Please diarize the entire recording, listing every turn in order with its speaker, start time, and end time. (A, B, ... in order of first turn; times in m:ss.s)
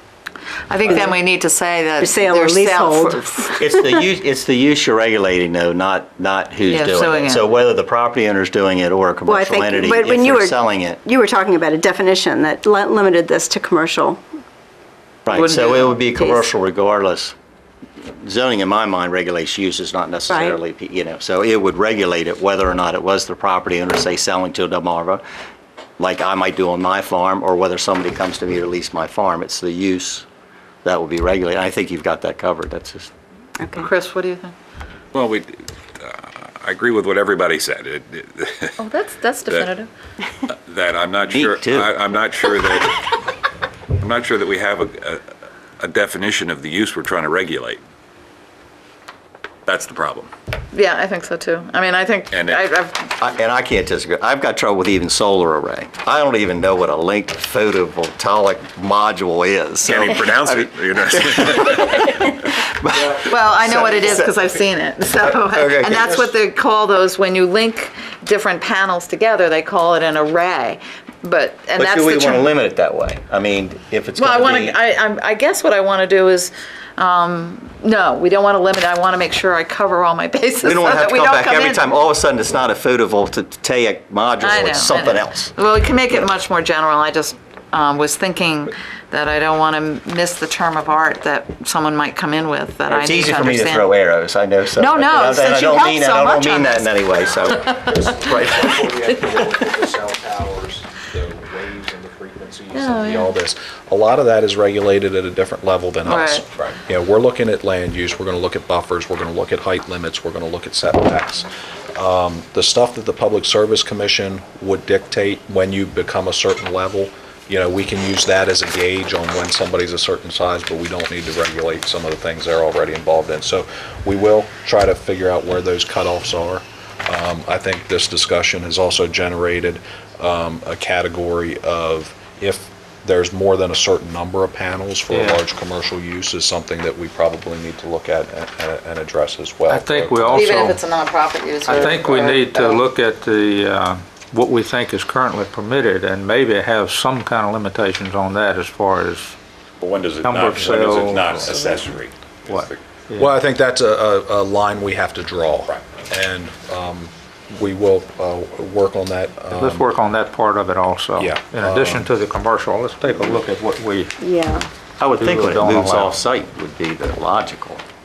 0:00.7-0:03.5 A
0:00.9-0:01.1 B
0:02.0-0:03.9 B
0:03.6-0:11.0 C
0:06.6-0:07.5 A
0:09.3-0:14.2 B
0:15.3-0:17.3 C
0:15.3-0:16.0 A
0:16.1-0:16.5 B
0:18.2-0:25.2 C
0:20.3-0:20.6 B
0:26.0-0:30.3 C
0:30.8-0:33.1 C
0:33.6-0:33.9 B
0:33.8-0:34.5 A
0:35.1-0:38.8 D
0:38.8-0:39.9 A
0:40.5-0:43.0 D
0:41.3-0:41.9 C
0:44.0-0:45.2 D
0:45.8-0:47.8 D
0:49.7-0:50.3 D
0:50.7-0:53.1 A
0:52.3-0:52.6 D
0:53.2-1:06.3 C
0:59.8-1:02.6 D
1:03.3-1:12.6 A
1:11.8-1:14.8 C
1:14.2-1:21.9 A
1:20.6-1:25.5 C
1:24.4-1:33.9 A
1:32.9-1:38.9 C
1:34.7-1:37.2 A
1:37.4-2:20.5 E
1:37.7-1:38.1 A
1:42.7-1:43.3 A
1:46.0-1:46.4 A
2:15.1-2:15.4 F
2:19.7-2:20.8 F
2:20.3-2:22.8 A
2:21.7-2:29.4 F
2:29.8-2:32.8 D
2:30.2-2:31.8 F
2:32.5-2:33.4 F
2:33.2-2:39.9 E
2:39.5-2:44.2 F
2:41.2-2:42.1 E
2:44.2-2:44.7 B
2:45.0-2:47.8 C
2:45.1-2:46.2 F